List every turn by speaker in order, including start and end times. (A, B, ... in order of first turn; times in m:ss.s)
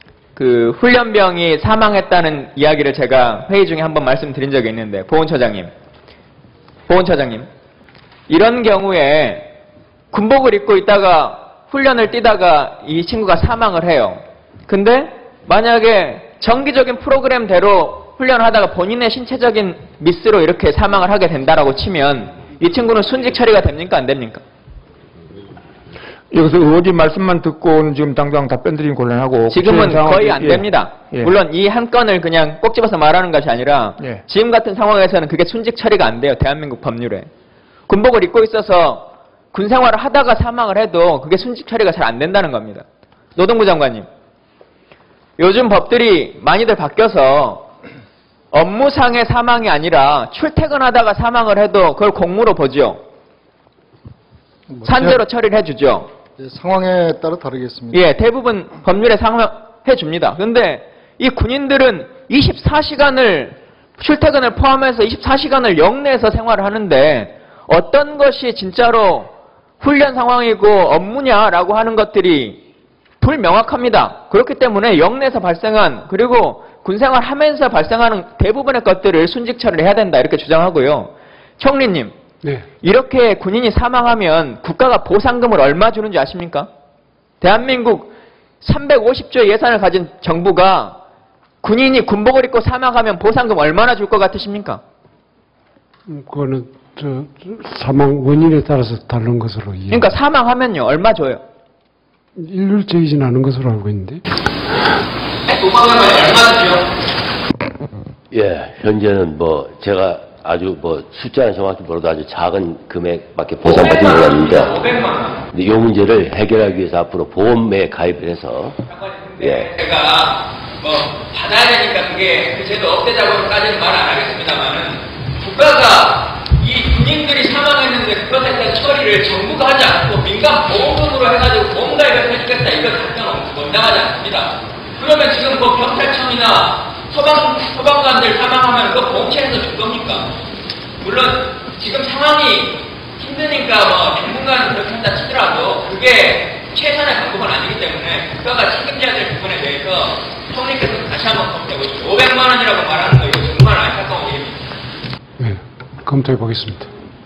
0:00.3-0:05.7 A
0:06.9-0:07.5 A
0:08.3-0:09.5 A
0:10.1-0:24.4 A
0:26.3-0:31.3 B
0:29.5-0:37.3 A
0:37.9-0:42.8 A
0:43.4-0:44.1 A
0:45.4-0:47.7 A
0:48.5-0:53.0 A
0:54.7-0:55.2 C
0:54.8-0:56.1 A
0:56.4-0:58.0 C
0:57.9-1:12.6 A
1:13.2-1:22.1 A
1:22.8-1:26.7 A
1:27.4-1:31.0 A
1:31.6-1:34.8 A
1:36.1-1:40.1 D
1:39.9-1:41.4 A
1:42.4-1:44.2 D
1:45.4-1:46.9 A
1:48.3-1:54.7 E
1:53.6-1:55.4 A
1:55.5-1:58.8 E
1:58.9-2:20.3 A
1:59.4-1:59.7 E
2:21.0-2:34.6 A
2:35.4-2:36.9 D